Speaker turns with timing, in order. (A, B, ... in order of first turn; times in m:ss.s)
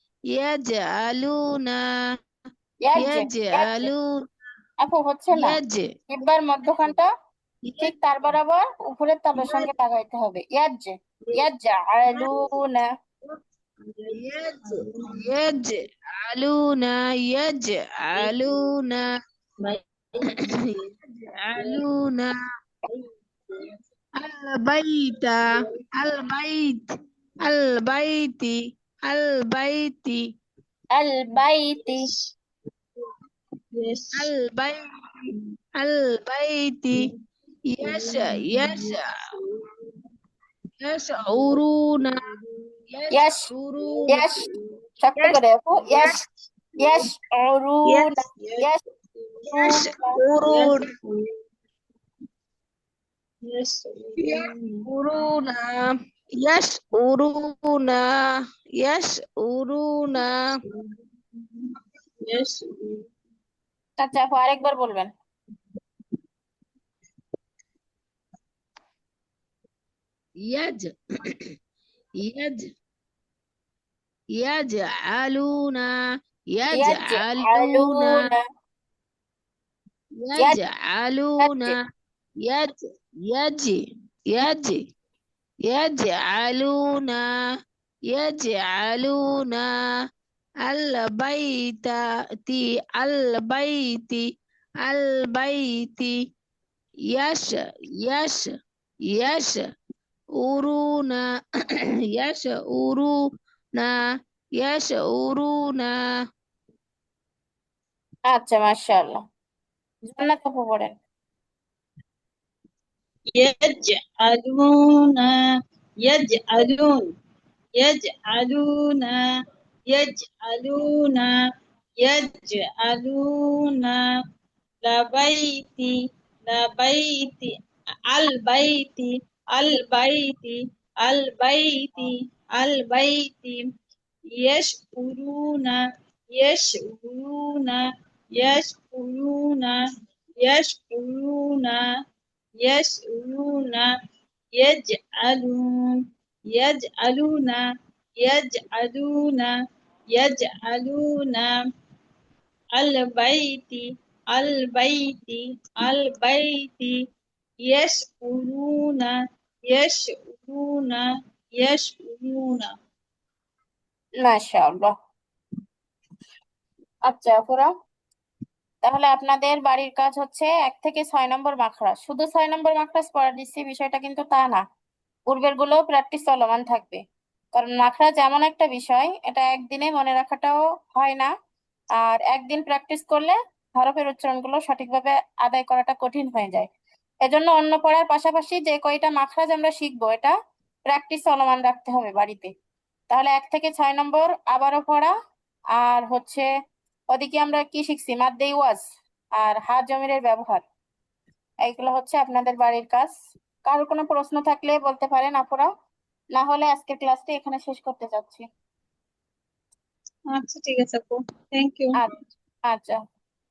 0:00.3-0:01.8 A
0:02.8-0:03.9 B
0:03.0-0:04.2 A
0:04.8-0:05.6 B
0:05.3-0:05.9 A
0:06.1-0:07.1 B
0:07.7-0:07.9 A
0:07.8-0:12.9 B
0:09.4-0:09.7 C
0:12.1-0:12.5 C
0:13.8-0:15.3 C
0:14.1-0:19.1 A
0:18.2-0:18.7 C
0:19.6-0:20.9 C
0:21.4-0:22.3 A
0:21.6-0:21.8 C
0:24.2-0:26.8 A
0:27.4-0:30.2 A
0:31.0-0:32.0 B
0:31.8-0:32.2 C
0:33.7-0:34.3 C
0:34.1-0:34.8 A
0:35.8-0:37.1 A
0:37.7-0:39.1 A
0:37.8-0:39.7 C
0:40.8-0:42.2 A
0:41.3-0:42.7 C
0:42.9-0:44.3 A
0:43.1-0:43.5 B
0:43.8-0:44.7 C
0:44.1-0:44.4 B
0:45.0-0:46.1 B
0:46.8-0:48.8 B
0:48.4-0:49.7 C
0:49.5-0:50.2 B
0:49.5-0:50.9 A
0:50.4-0:51.3 C
0:53.4-0:54.8 C
0:54.2-0:58.0 A
0:58.8-1:00.4 A
1:00.2-1:01.7 C
1:02.2-1:03.0 C
1:04.0-1:05.1 B
1:10.4-1:11.4 A
1:12.2-1:12.6 A
1:14.4-1:15.9 A
1:16.5-1:18.2 A
1:16.8-1:18.4 B
1:20.2-1:21.8 A
1:21.4-1:21.8 B
1:22.4-1:22.8 A
1:23.3-1:24.8 A
1:25.6-1:27.3 A
1:28.1-1:29.7 A
1:30.7-1:34.2 A
1:34.8-1:36.2 A
1:37.1-1:38.5 A
1:39.1-1:39.6 A
1:40.4-1:41.3 A
1:42.1-1:43.2 A
1:44.6-1:46.0 A
1:48.3-1:49.2 B
1:50.1-1:50.9 B
1:53.3-1:55.3 C
1:56.0-1:57.0 C
1:57.8-1:59.2 C
1:59.9-2:01.3 C
2:02.0-2:04.0 C
2:04.8-2:05.9 C
2:06.5-2:07.5 C
2:08.1-2:13.6 C
2:14.4-2:15.8 C
2:16.4-2:17.8 C
2:18.4-2:19.8 C
2:20.4-2:21.8 C
2:22.6-2:23.9 C
2:24.6-2:25.9 C
2:26.5-2:27.6 C
2:28.2-2:29.5 C
2:30.1-2:31.5 C
2:32.8-2:33.8 C
2:34.3-2:37.0 C
2:37.7-2:39.1 C
2:39.7-2:41.0 C
2:41.6-2:42.7 C
2:44.2-2:44.9 B
2:47.1-2:47.7 B
2:48.8-2:54.6 B
2:55.3-2:57.0 B
2:57.6-3:01.3 B
3:02.0-3:06.7 B
3:07.2-3:10.3 B
3:10.9-3:12.5 B
3:13.1-3:15.1 B
3:15.8-3:16.5 B
3:17.1-3:18.8 B
3:19.4-3:20.6 B
3:21.6-3:23.1 B
3:23.6-3:25.7 B
3:26.4-3:28.4 B
3:30.3-3:32.0 C
3:32.7-3:33.0 B